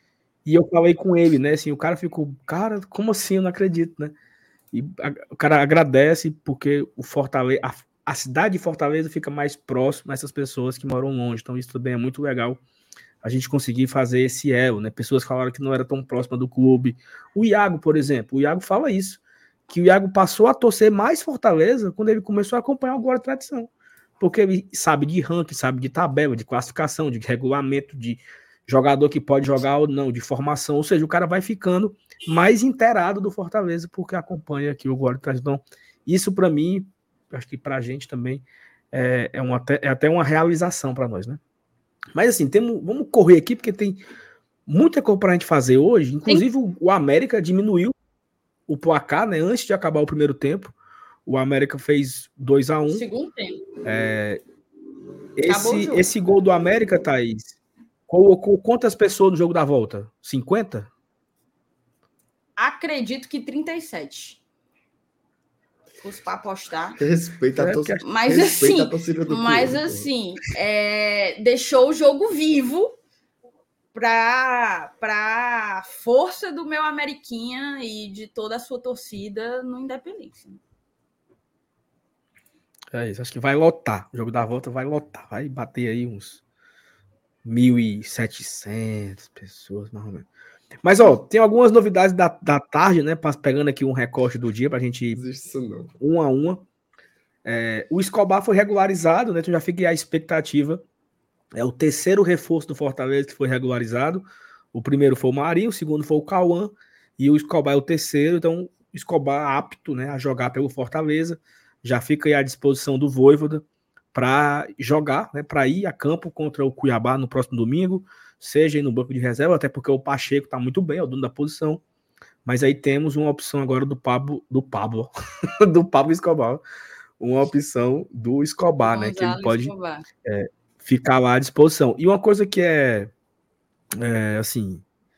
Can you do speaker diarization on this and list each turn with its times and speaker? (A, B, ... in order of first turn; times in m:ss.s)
0:00.4-0:04.1 A
0:04.7-0:12.6 A
0:13.2-0:23.7 A
0:24.2-0:41.4 A
0:42.1-0:44.0 A
0:44.7-0:47.9 A
0:48.7-0:50.7 A
0:51.2-0:53.0 A
0:52.9-0:53.7 B
0:53.8-0:54.4 A
0:55.4-0:57.6 A
0:55.5-0:56.1 B
0:58.1-1:00.9 A
1:02.6-1:04.4 B
1:06.0-1:07.0 B
1:07.0-1:10.1 C
1:07.6-1:08.0 A
1:08.0-1:13.0 B
1:13.9-1:20.6 B
1:22.9-1:26.4 A
1:27.4-1:30.3 A
1:30.8-1:35.2 A
1:35.1-1:35.9 C
1:36.0-1:36.6 A
1:37.4-1:40.8 A
1:41.5-2:01.8 A
2:02.4-2:06.6 A
2:07.2-2:09.7 A
2:08.8-2:10.0 B
2:10.2-2:13.1 A
2:14.0-2:14.8 A